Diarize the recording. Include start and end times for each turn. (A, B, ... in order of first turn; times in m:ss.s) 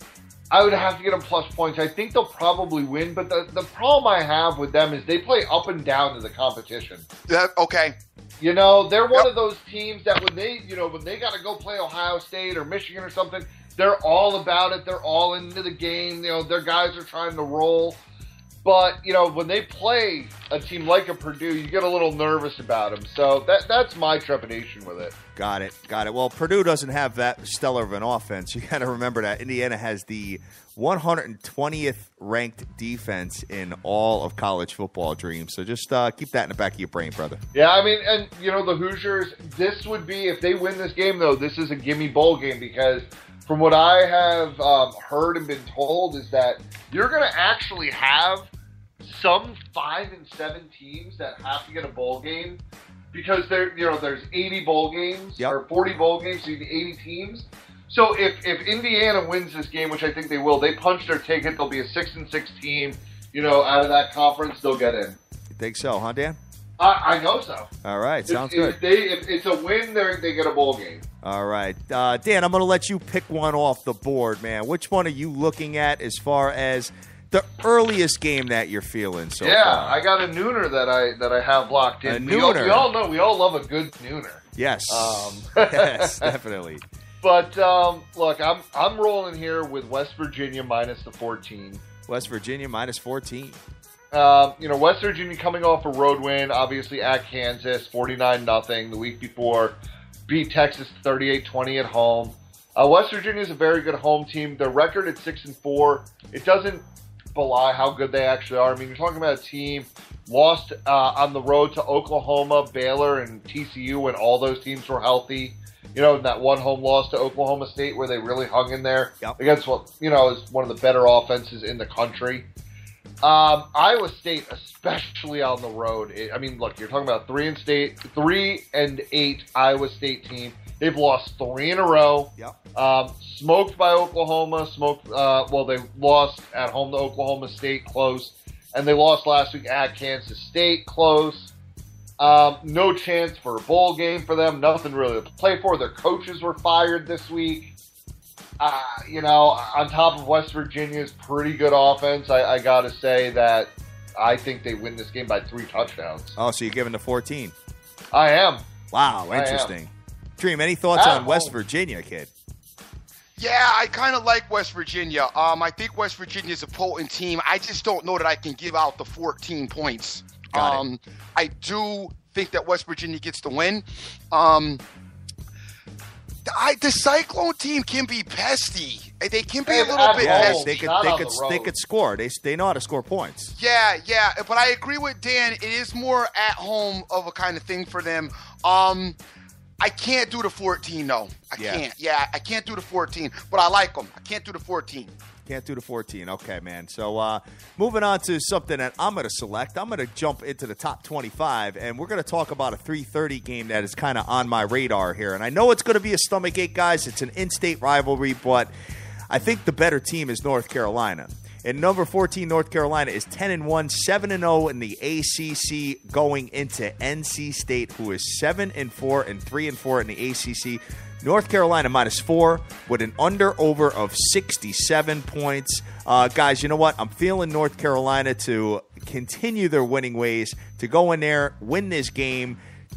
0:00.5-0:07.0 A
0:07.3-0:08.0 B
0:08.4-0:18.0 A
0:18.6-0:25.1 A
0:25.4-0:37.4 C
0:37.5-0:48.5 A
0:49.0-0:52.6 A
0:53.1-1:05.2 A
1:05.5-1:06.4 C
1:06.8-1:07.7 A
1:07.8-1:08.8 C
1:08.3-1:11.0 A
1:11.2-1:20.0 C
1:19.4-1:26.4 A
1:22.0-1:22.9 C
1:24.6-1:26.8 C
1:27.2-1:31.8 A
1:32.1-1:33.6 C
1:34.1-1:39.8 A
1:40.3-2:02.5 A
2:03.2-2:21.5 A
2:22.2-2:27.7 A
2:28.6-2:36.4 A
2:36.4-2:37.5 C
2:38.1-2:38.6 A
2:38.9-2:42.3 C
2:39.3-2:39.7 A
2:40.9-2:41.5 A
2:43.4-2:54.8 B
2:50.5-2:50.8 C
2:56.4-3:00.6 B
2:59.7-3:01.7 A
3:00.2-3:03.5 C
3:03.6-3:09.2 B
3:09.8-3:15.1 B
3:11.6-3:11.8 C
3:15.4-3:28.7 C
3:29.3-3:52.6 C